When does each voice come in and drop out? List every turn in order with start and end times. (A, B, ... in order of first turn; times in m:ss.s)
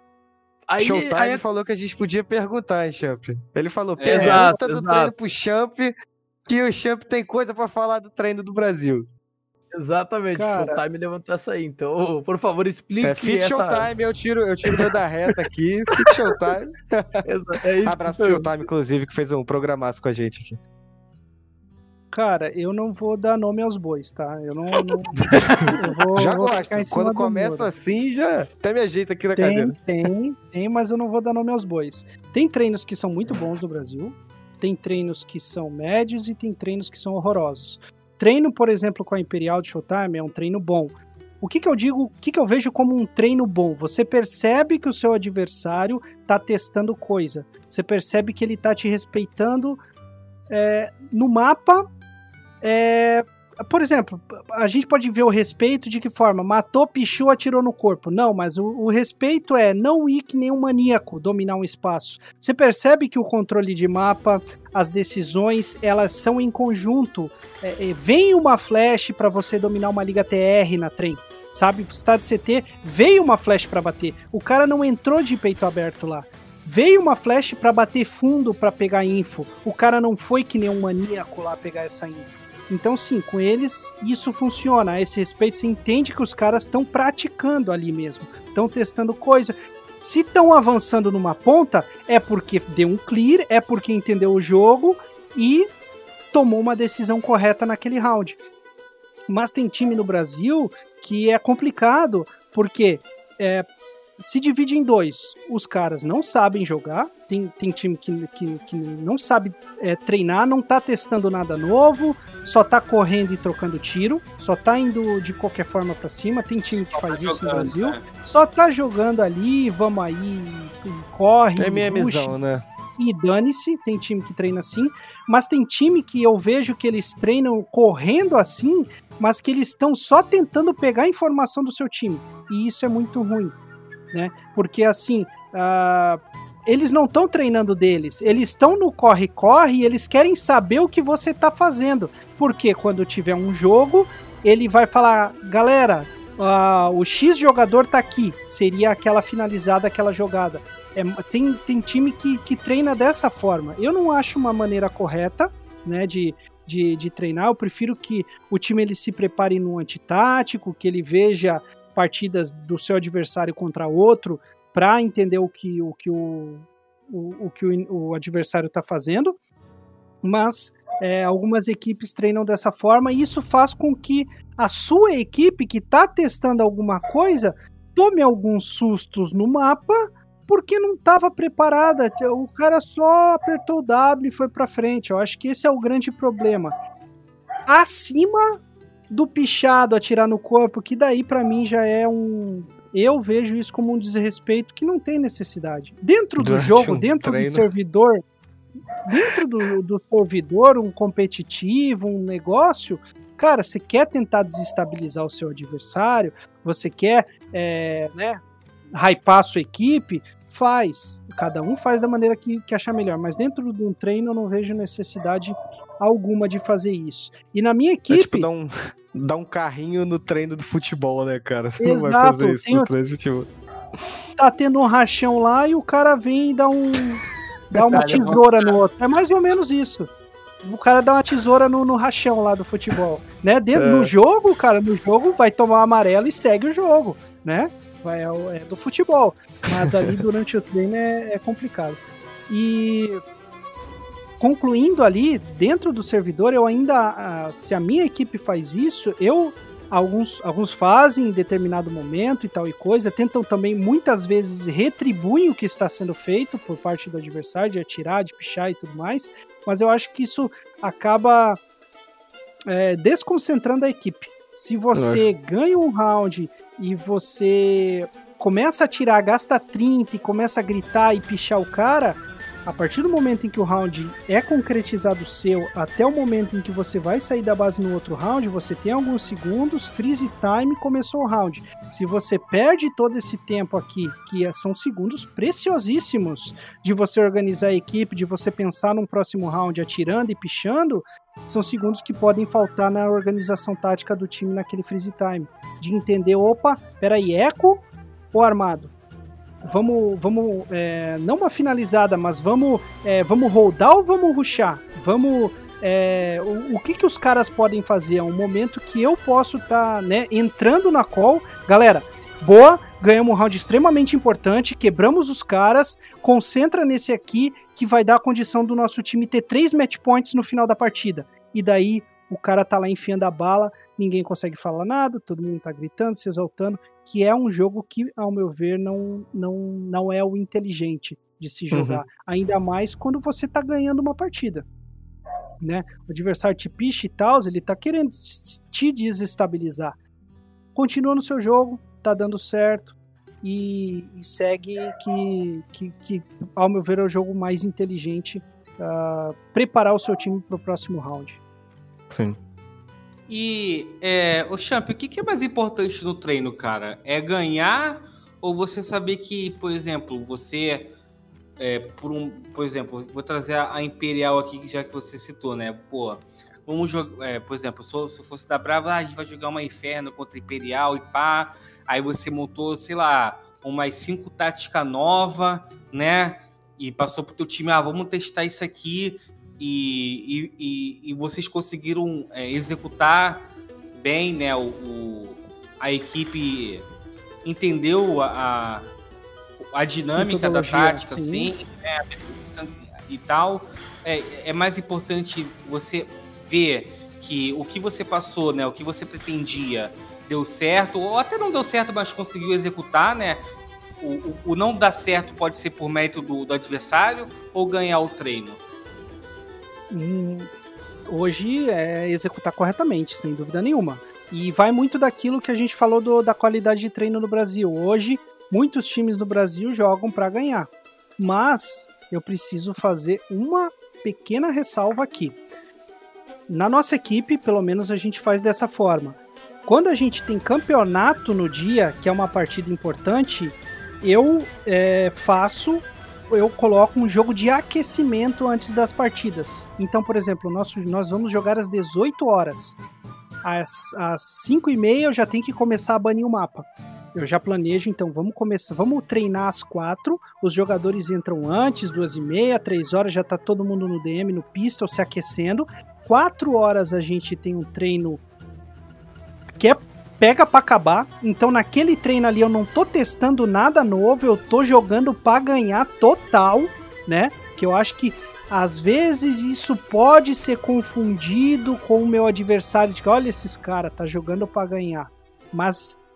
0:00.7-0:01.4 A
0:00.8-0:05.9 B
0:04.0-0:04.5 C
0:04.0-0:05.1 A
0:06.5-0:09.1 B
0:09.7-0:13.8 A
0:10.3-0:10.8 D
0:13.0-0:17.2 B
0:15.9-0:16.3 A
0:17.2-0:18.5 A
0:17.8-0:20.6 B
0:22.1-0:27.7 D
0:25.3-0:25.8 A
0:26.2-0:29.8 B
0:29.4-0:49.8 D
0:50.5-0:51.8 D
0:52.6-1:35.7 D
1:36.3-1:38.4 D
1:39.3-1:43.6 D
1:44.2-2:02.3 D
1:56.7-1:58.0 C
2:01.6-2:02.6 B
2:03.0-2:13.5 D
2:14.1-2:49.4 D
2:50.2-3:06.7 D
3:07.7-3:08.6 D
3:09.1-3:18.2 D
3:16.4-3:17.7 B
3:19.0-3:28.4 D
3:29.0-3:38.5 D
3:38.1-3:43.5 B
3:41.8-3:42.9 D
3:44.4-3:47.2 D
3:47.7-3:48.3 B
3:47.7-3:50.1 D
3:47.9-3:48.8 C
3:50.6-4:03.2 D
3:53.8-3:54.1 B
4:04.4-4:21.6 D
4:22.7-4:58.9 D
4:24.9-4:25.2 B
4:59.7-5:34.6 D
5:31.7-5:32.0 B
5:35.6-5:40.0 D
5:40.7-5:51.4 D
5:52.1-5:52.4 B
5:53.3-6:00.9 C
6:01.6-6:26.8 C
6:27.4-6:28.9 C
6:29.7-6:43.4 C
6:30.2-6:31.5 D
6:44.0-6:48.6 C
6:49.9-6:50.5 D
6:51.1-7:05.4 D
7:06.5-7:22.8 D
7:23.4-7:38.2 D
7:39.6-7:56.0 D